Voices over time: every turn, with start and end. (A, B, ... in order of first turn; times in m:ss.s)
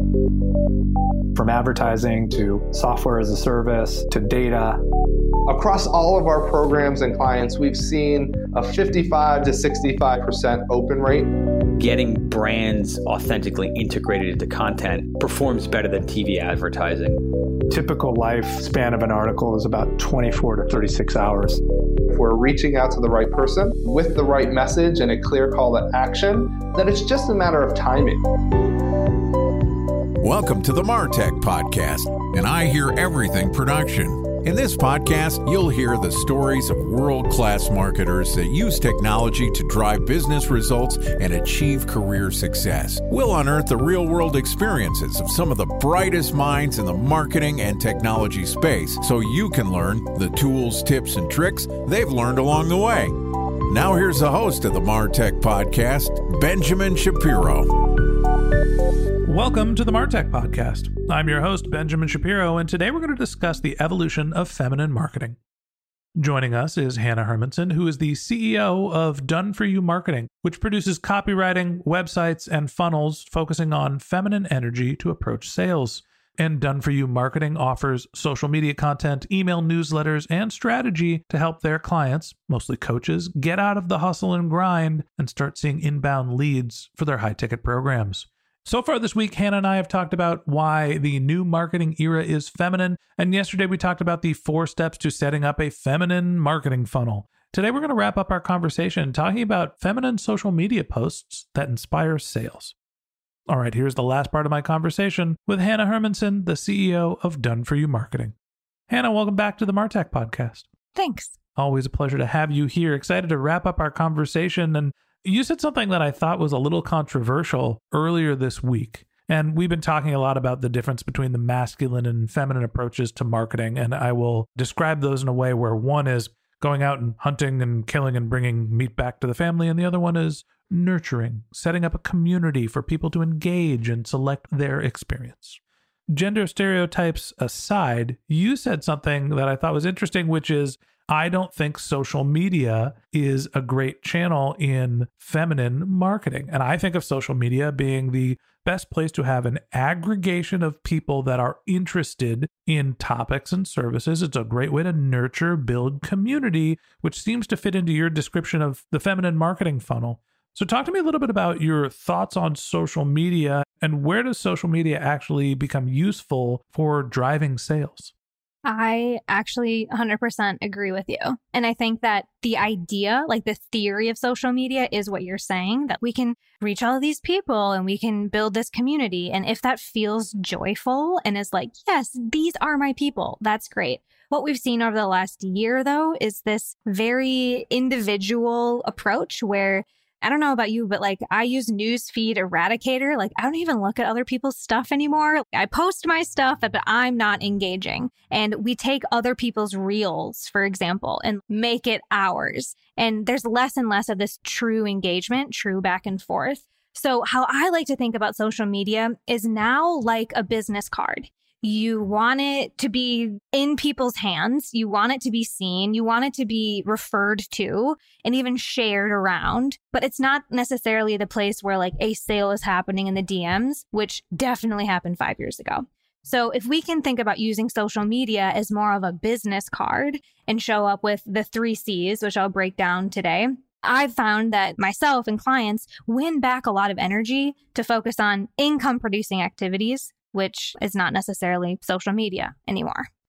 0:01.4-0:04.8 A
0:05.5-0:11.3 B
0:11.8-0:17.2 C
0:17.7-0:21.6 A
0:22.1-0:28.2 B
0:30.2-0:53.1 D
0:53.7-0:57.7 D
0:59.2-1:05.4 E
1:06.2-1:42.7 E
1:43.5-1:48.3 E
1:48.9-1:50.7 E
1:50.9-1:51.3 F
1:51.6-2:15.6 E
2:16.1-2:48.1 E
2:48.6-4:03.0 F